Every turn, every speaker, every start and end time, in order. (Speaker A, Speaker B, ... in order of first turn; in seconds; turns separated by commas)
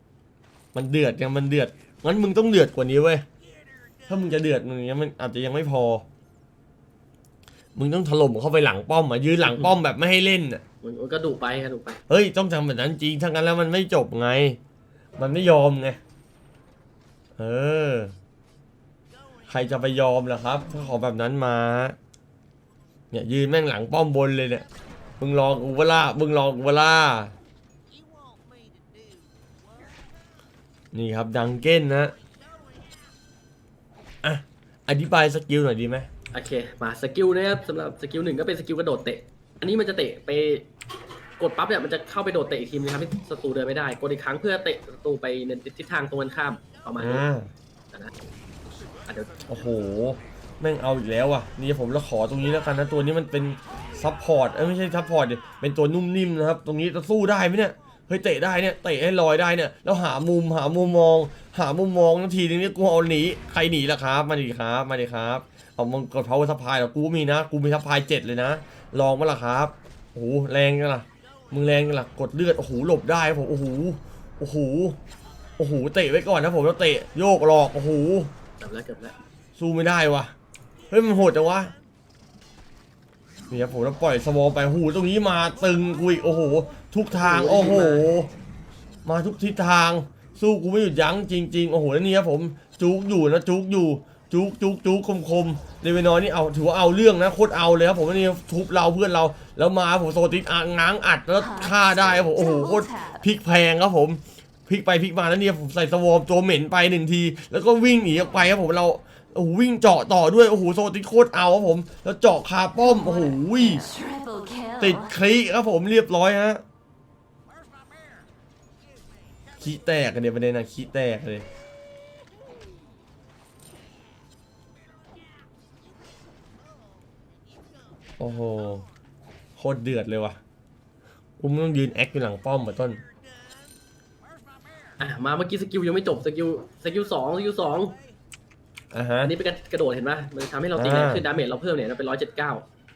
Speaker A: 0.7-3.2, Speaker A: 4.1-6.0, Speaker A: 7.7-10.6, Speaker B: 9.4-9.7, Speaker B: 10.8-12.0, Speaker A: 12.1-14.6, Speaker A: 15.2-16.0, Speaker A: 17.4-18.1, Speaker A: 19.5-21.9, Speaker A: 23.1-24.6, Speaker A: 25.2-27.3, Speaker A: 30.9-32.1, Speaker A: 34.2-36.1, Speaker B: 36.3-40.7, Speaker B: 41.4-47.2, Speaker A: 47.0-47.5, Speaker B: 49.1-49.4, Speaker A: 49.5-75.0, Speaker A: 75.6-78.3, Speaker B: 78.6-79.2, Speaker A: 79.6-80.3, Speaker A: 80.9-81.7, Speaker A: 83.5-88.3, Speaker B: 87.1-88.1, Speaker A: 89.0-113.8, Speaker C: 101.4-103.2, Speaker C: 113.0-115.1, Speaker A: 114.8-116.6, Speaker A: 119.6-121.5, Speaker A: 128.2-128.8, Speaker A: 129.6-130.4, Speaker A: 131.4-133.0, Speaker B: 135.0-138.0, Speaker A: 138.9-139.3, Speaker B: 139.2-142.7, Speaker A: 140.8-141.2